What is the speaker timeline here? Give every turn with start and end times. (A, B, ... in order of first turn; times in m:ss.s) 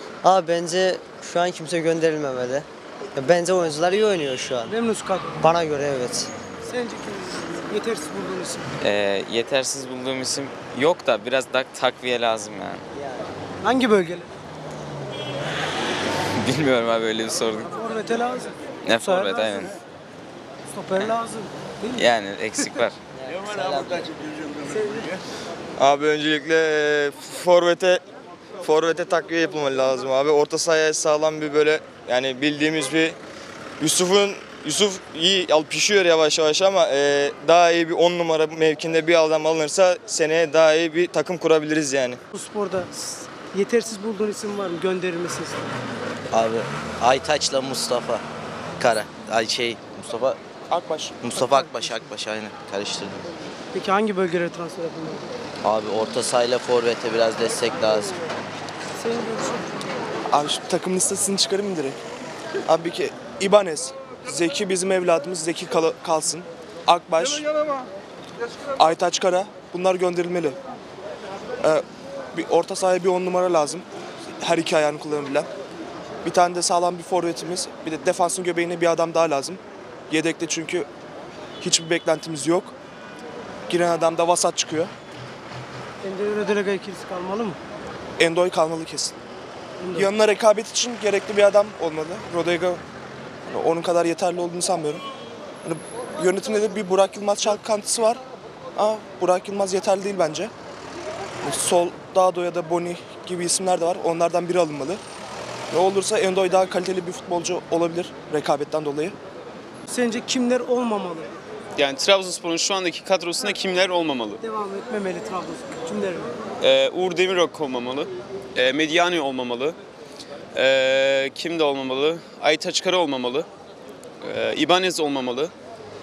0:00.2-0:04.7 A
0:04.6-0:05.4 B
0:05.4-0:06.3 A
0:06.6-0:08.7 B
0:08.8-0:12.8 C
0:13.6-0:14.3 B
0:16.4-0:17.7 C
0:17.7-0:19.7 B
0:18.9-0:19.7 C
0:20.7-0:22.1 B
0:22.0-0:22.9 C
0:24.7-0:25.1 B
0:25.8-0:28.0 D
0:28.6-0:33.2 D
0:33.8-0:42.2 D
0:42.3-0:45.7 B
0:46.3-0:48.2 E
0:48.8-0:50.4 E
0:50.7-0:51.2 F
0:51.2-0:53.2 E
0:51.3-0:52.1 B
0:53.7-0:55.3 B
0:55.6-0:58.1 E
0:59.0-0:59.7 B
1:00.3-1:02.0 F
1:02.7-1:07.5 F
1:08.8-1:10.6 F
1:12.3-1:13.9 F
1:14.4-1:15.5 F
1:16.2-1:19.6 F
1:20.1-1:20.9 F
1:21.6-1:22.7 F
1:23.7-1:24.9 F
1:26.0-1:27.6 B
1:28.2-1:29.2 F
1:29.8-1:30.1 B
1:30.0-1:32.8 F
1:33.5-1:35.0 F
1:35.6-1:38.2 F
1:38.8-1:40.5 F
1:41.4-1:45.0 F
1:45.7-1:49.2 F
1:49.9-1:51.3 B
1:51.8-1:54.4 G
1:54.4-1:56.3 B
1:56.6-1:59.8 G
2:00.6-2:03.5 G
2:04.2-2:05.5 G